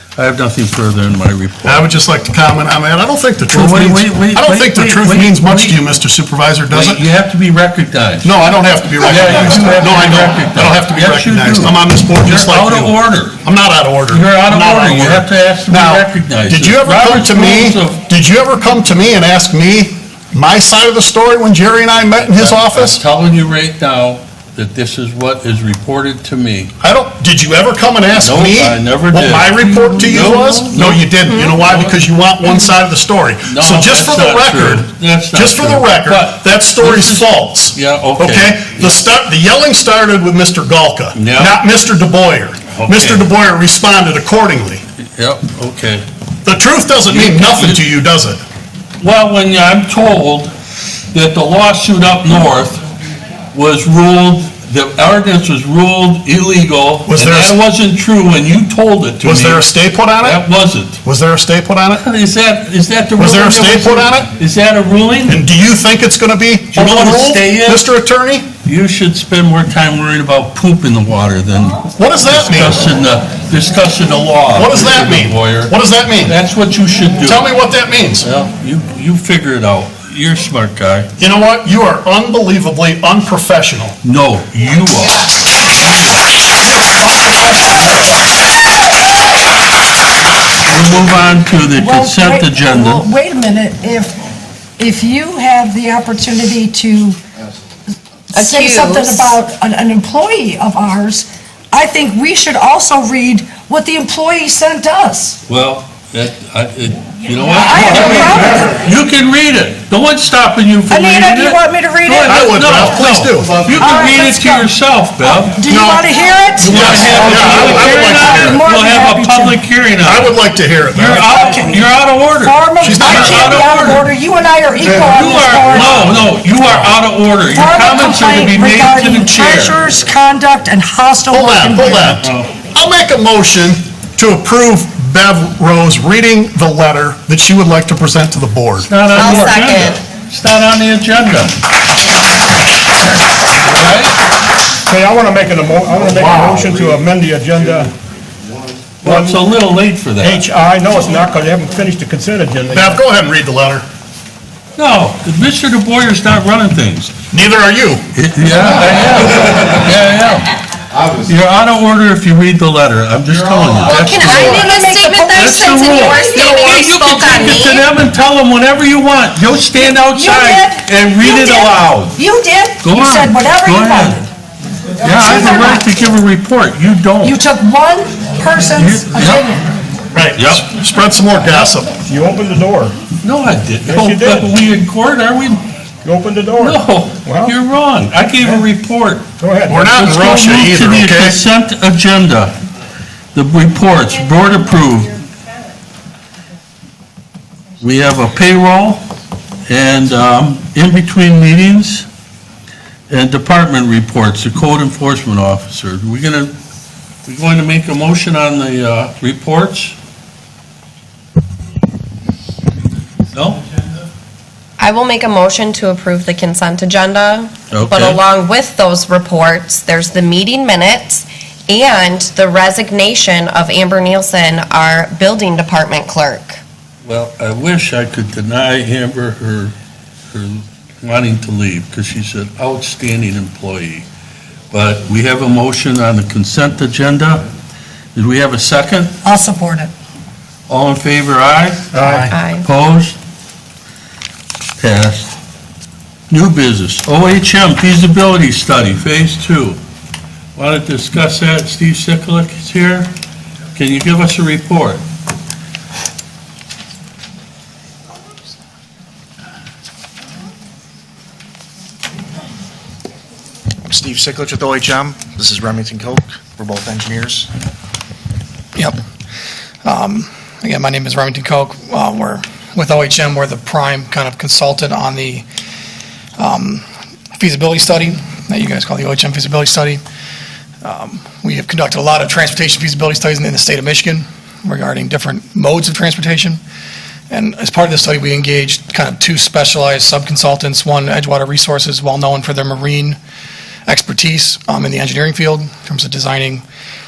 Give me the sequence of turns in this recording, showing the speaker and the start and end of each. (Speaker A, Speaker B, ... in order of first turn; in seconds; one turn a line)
Speaker A: 0.1-1.8
Speaker B: 1.6-7.0
Speaker A: 3.5-5.8
Speaker A: 6.7-8.3
Speaker B: 8.2-23.0
Speaker A: 9.0-13.4
Speaker A: 14.1-18.0
Speaker A: 22.2-26.7
Speaker B: 26.8-44.8
Speaker A: 28.2-32.0
Speaker C: 31.3-31.6
Speaker A: 33.4-38.9
Speaker A: 41.1-41.5
Speaker A: 42.7-43.3
Speaker A: 45.2-46.0
Speaker B: 46.4-48.4
Speaker A: 47.1-47.8
Speaker A: 49.0-50.5
Speaker A: 51.1-52.8
Speaker A: 53.5-59.6
Speaker B: 57.1-57.6
Speaker B: 59.2-60.4
Speaker A: 60.2-61.0
Speaker B: 61.0-62.0
Speaker A: 61.9-65.4
Speaker B: 63.2-64.3
Speaker B: 65.3-68.5
Speaker A: 66.7-67.8
Speaker A: 68.6-75.7
Speaker B: 72.0-72.9
Speaker B: 74.5-76.3
Speaker A: 76.2-77.4
Speaker B: 77.2-78.2
Speaker A: 78.2-81.1
Speaker B: 81.2-84.0
Speaker A: 84.0-85.4
Speaker B: 86.8-87.9
Speaker A: 90.7-93.0
Speaker D: 91.7-94.2
Speaker D: 94.8-97.2
Speaker C: 98.3-99.4
Speaker D: 98.3-105.4
Speaker A: 105.5-115.6
Speaker D: 107.5-108.7
Speaker D: 110.9-112.5
Speaker B: 112.2-113.8
Speaker D: 113.8-119.6
Speaker B: 115.7-116.0
Speaker A: 116.6-120.3
Speaker B: 116.7-118.6
Speaker B: 120.0-121.3
Speaker A: 120.9-124.0
Speaker D: 121.2-121.9
Speaker D: 122.4-126.0
Speaker B: 122.8-123.6
Speaker A: 124.8-129.8
Speaker B: 125.8-126.8
Speaker D: 127.5-132.2
Speaker B: 131.3-138.9
Speaker A: 132.2-132.5
Speaker A: 138.8-141.6
Speaker C: 139.1-140.0
Speaker A: 143.5-144.2
Speaker E: 144.8-147.9
Speaker B: 146.2-146.5
Speaker A: 149.0-150.4
Speaker E: 149.0-149.4
Speaker E: 150.2-153.0
Speaker B: 152.7-153.8
Speaker A: 154.8-157.1
Speaker B: 157.3-158.0
Speaker A: 158.1-160.5
Speaker A: 161.2-164.7
Speaker C: 163.8-167.8
Speaker D: 164.6-166.6
Speaker A: 165.3-172.2
Speaker D: 169.8-174.2
Speaker A: 172.8-174.3
Speaker A: 175.0-177.4
Speaker D: 175.1-175.9
Speaker D: 177.2-179.6
Speaker A: 178.7-179.5
Speaker B: 180.1-182.0
Speaker A: 180.3-180.7
Speaker E: 182.0-182.9
Speaker A: 183.2-185.6
Speaker E: 183.8-184.5
Speaker E: 186.0-187.6
Speaker A: 186.6-189.2
Speaker E: 189.4-190.0
Speaker B: 189.7-191.4
Speaker A: 189.9-192.6
Speaker A: 193.3-195.2
Speaker A: 197.8-199.0
Speaker A: 199.7-202.1
Speaker A: 203.1-206.6
Speaker A: 207.2-209.9
Speaker A: 213.3-213.6
Speaker C: 214.8-226.6
Speaker A: 217.7-218.2
Speaker A: 227.0-229.7
Speaker A: 230.3-234.1
Speaker A: 234.7-237.4
Speaker A: 238.1-239.2
Speaker D: 239.2-239.9
Speaker A: 240.7-243.2
Speaker E: 241.9-242.3
Speaker C: 242.3-242.7
Speaker A: 244.8-245.3
Speaker A: 246.3-249.8
Speaker A: 250.6-253.1
Speaker A: 253.7-255.0
Speaker F: 263.8-267.5
Speaker G: 269.8-275.4
Speaker G: 276.4-276.8
Speaker G: 277.4-280.0
Speaker G: 280.8-286.6
Speaker G: 287.3-293.2
Speaker G: 293.9-296.6